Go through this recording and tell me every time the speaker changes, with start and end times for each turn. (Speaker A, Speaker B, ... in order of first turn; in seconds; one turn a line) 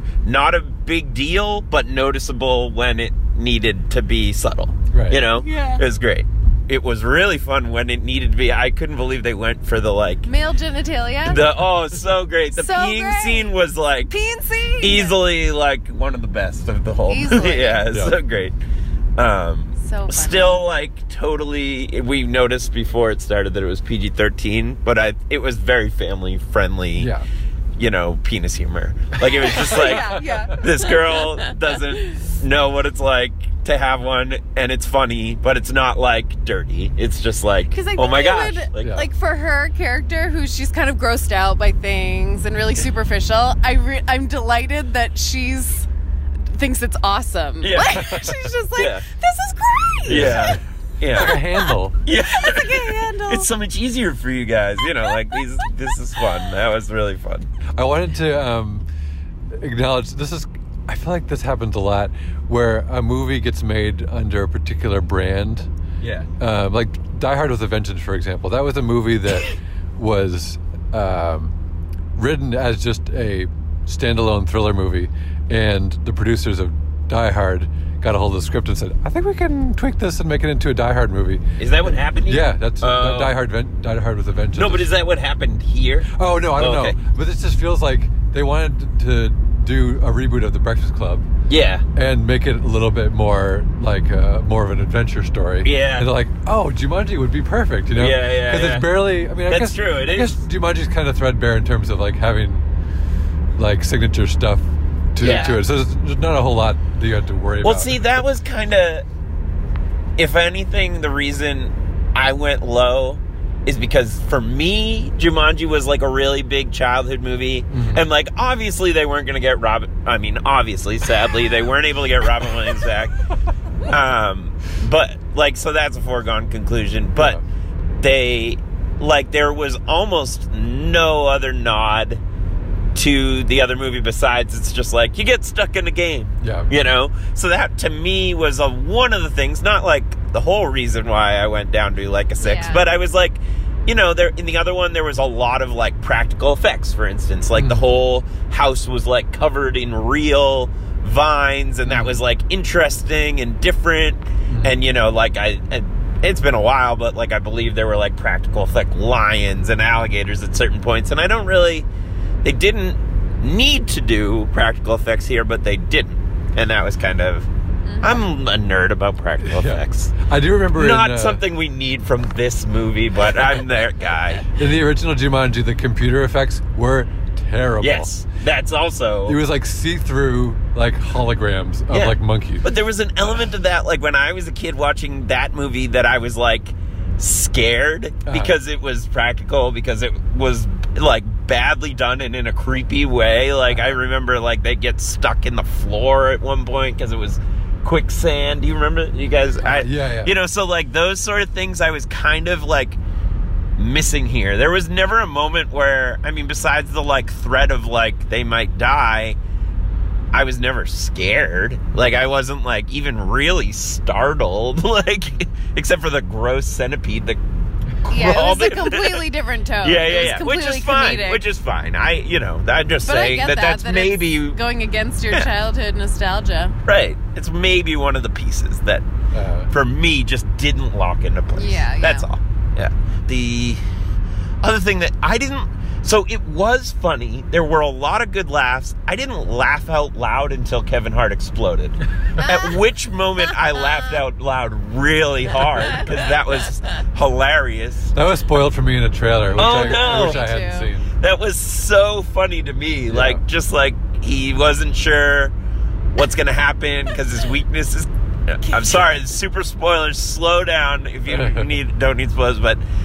Speaker A: 0.2-10.3
Speaker B: 4.9-5.2
Speaker C: 5.4-5.8
Speaker C: 10.2-11.4
Speaker A: 11.2-14.1
Speaker C: 12.5-13.5
Speaker C: 14.1-15.2
Speaker A: 14.8-18.5
Speaker C: 17.1-17.9
Speaker B: 17.9-18.1
Speaker A: 19.2-27.1
Speaker C: 19.8-20.6
Speaker B: 27.0-27.3
Speaker A: 27.8-39.0
Speaker C: 29.4-31.9
Speaker C: 37.7-45.9
Speaker C: 46.5-50.5
Speaker A: 47.6-49.0
Speaker A: 50.1-51.4
Speaker B: 50.1-50.6
Speaker B: 51.1-52.0
Speaker C: 51.2-53.5
Speaker A: 52.0-57.5
Speaker C: 55.1-55.4
Speaker C: 56.2-56.5
Speaker B: 57.8-58.9
Speaker B: 59.5-65.7
Speaker A: 66.0-66.3
Speaker B: 66.4-71.5
Speaker B: 72.2-81.4
Speaker A: 81.6-83.3
Speaker B: 82.2-84.9
Speaker A: 84.5-87.0
Speaker B: 86.1-91.2
Speaker A: 91.5-91.8
Speaker B: 91.9-102.6
Speaker A: 95.6-96.1
Speaker A: 97.9-100.4
Speaker B: 103.6-108.2
Speaker A: 105.2-105.6
Speaker A: 107.6-109.0
Speaker A: 110.2-123.1
Speaker B: 117.7-118.0
Speaker A: 123.8-127.4
Speaker B: 127.2-127.4
Speaker A: 128.0-132.2
Speaker A: 132.9-161.9
Speaker B: 136.4-136.7
Speaker C: 142.4-142.9
Speaker B: 147.6-147.9
Speaker B: 151.8-152.2
Speaker B: 154.5-154.8
Speaker A: 162.4-167.5
Speaker C: 167.8-168.2
Speaker A: 168.0-170.1
Speaker B: 169.4-171.4
Speaker A: 170.7-174.4
Speaker B: 174.5-178.1
Speaker A: 177.8-179.4
Speaker B: 179.2-182.7
Speaker A: 181.9-203.0
Speaker B: 188.2-188.6
Speaker B: 193.7-194.0
Speaker B: 199.6-200.3
Speaker A: 203.8-209.4
Speaker A: 210.3-217.4
Speaker A: 218.0-219.2
Speaker C: 218.1-221.4
Speaker A: 219.8-224.6
Speaker C: 223.1-226.8
Speaker A: 226.9-229.0
Speaker B: 229.3-229.7
Speaker A: 229.7-233.8
Speaker C: 231.5-232.3
Speaker A: 234.6-248.1
Speaker C: 242.4-242.7
Speaker C: 243.8-244.2
Speaker B: 248.1-251.1
Speaker A: 249.6-250.4
Speaker C: 249.7-250.9
Speaker A: 251.2-255.5
Speaker B: 253.1-253.4
Speaker A: 256.1-262.8
Speaker C: 258.6-259.1
Speaker B: 261.3-261.7